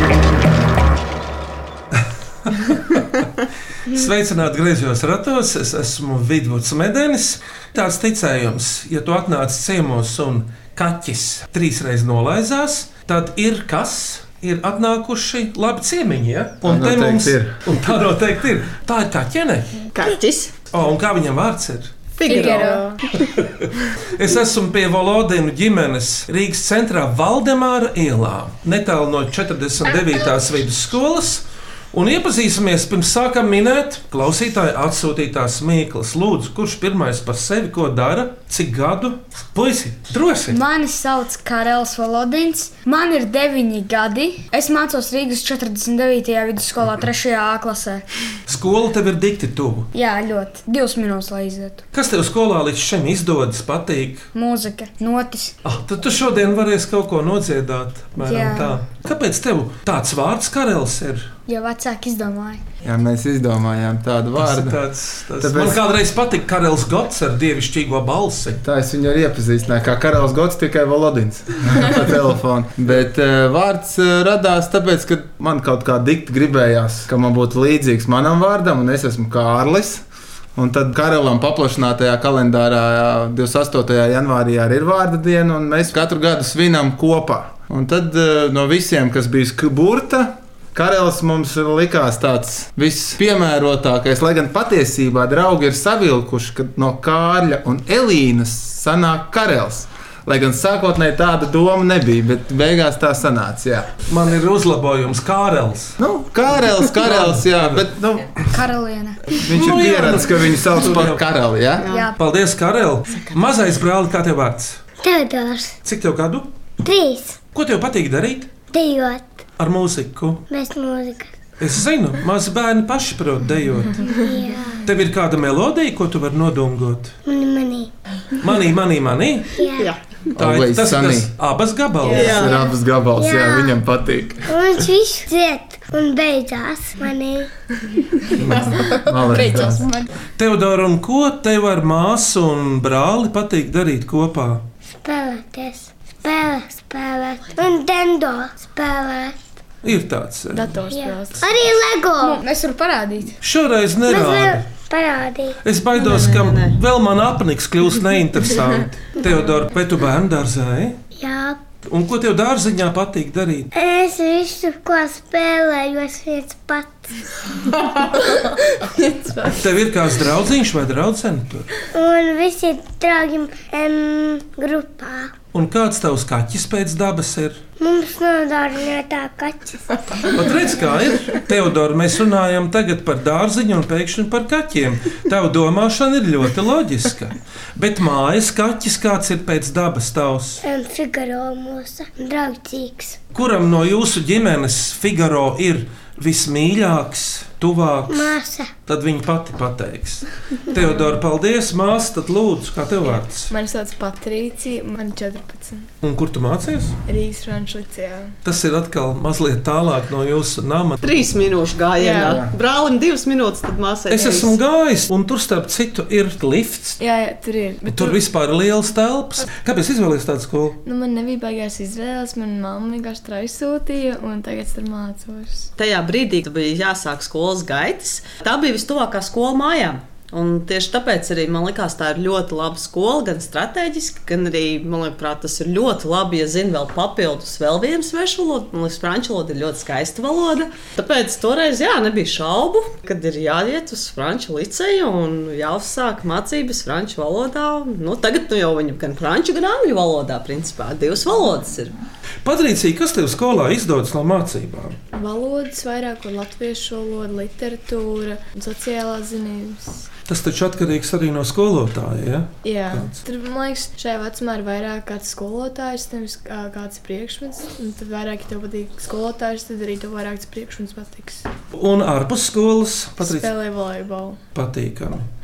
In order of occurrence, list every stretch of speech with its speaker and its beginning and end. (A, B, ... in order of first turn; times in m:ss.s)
0:02.5-0:03.0 A
0:03.9-0:19.7 A
0:16.6-0:17.5 B
0:19.9-0:20.5 C
0:20.7-0:21.9 A
0:22.2-0:23.0 C
0:22.3-0:22.9 D
0:22.3-0:23.0 E
0:23.4-0:40.6 A
0:40.5-0:48.0 D
0:48.5-0:49.9 A
0:49.9-0:51.8 D
0:51.9-0:54.3 A
0:54.3-0:55.6 D
0:55.6-1:01.3 A
0:58.2-0:58.8 D
1:01.5-1:02.6 D
1:02.8-1:04.8 B
1:04.4-1:08.6 A
1:05.4-1:05.8 B
1:08.6-1:20.0 B
1:20.6-1:43.9 B
1:44.1-1:46.0 A
1:46.0-1:48.4 B
1:46.9-1:47.8 A
1:48.5-1:49.2 D
1:49.3-1:51.9 B
1:49.4-1:51.2 A
1:51.9-1:52.2 D
1:52.2-1:54.8 A
1:55.0-1:55.8 F
1:55.8-1:56.5 A
1:56.8-1:57.4 F
1:57.5-1:58.5 A
1:58.7-1:59.3 F
1:59.6-2:00.4 A
2:00.5-2:01.3 F
2:01.6-2:04.1 A
2:04.1-2:04.8 F
2:04.9-2:07.2 A
2:07.3-2:07.9 F
2:08.4-2:09.5 A
2:09.6-2:09.9 F
2:10.4-2:11.3 B
2:10.4-2:12.4 A
2:12.0-2:12.5 E
2:12.1-2:12.6 C
2:12.2-2:14.5 B
2:13.2-2:13.8 F
2:14.5-2:17.5 F
2:18.4-2:19.9 B
2:19.3-2:20.1 D
2:20.4-2:24.6 A
2:24.9-2:29.4 F
2:29.8-2:30.7 A
2:30.5-2:31.5 E
2:30.9-2:32.4 F
2:32.2-2:33.4 D
2:33.4-2:34.7 A
2:34.1-2:35.6 F
2:35.6-2:41.0 A
2:36.0-2:36.8 C
2:41.2-2:41.6 F
2:41.9-2:43.7 A
2:43.7-2:47.1 F
2:48.0-2:49.6 E
2:49.5-2:51.7 A
2:51.9-2:55.3 F
2:55.5-2:57.6 A
2:57.8-3:00.3 F
3:00.3-3:10.6 A
3:10.6-3:13.2 F
3:13.3-3:23.5 A
3:18.1-3:18.7 F
3:23.5-3:25.9 E
3:26.0-3:27.0 A
3:27.1-3:28.4 E
3:28.4-3:31.2 A
3:31.0-3:34.6 C
3:32.0-3:32.4 E
3:32.2-3:32.5 B
3:34.1-3:37.0 A
3:37.0-3:38.2 E
3:37.9-3:40.8 A
3:40.8-3:45.7 E
3:45.8-4:12.0 C
4:12.4-4:15.0 A
4:15.1-4:20.1 E
4:20.3-4:23.1 A
4:22.6-4:31.5 E
4:31.7-4:33.5 A
4:33.2-4:34.4 E
4:34.6-4:35.3 A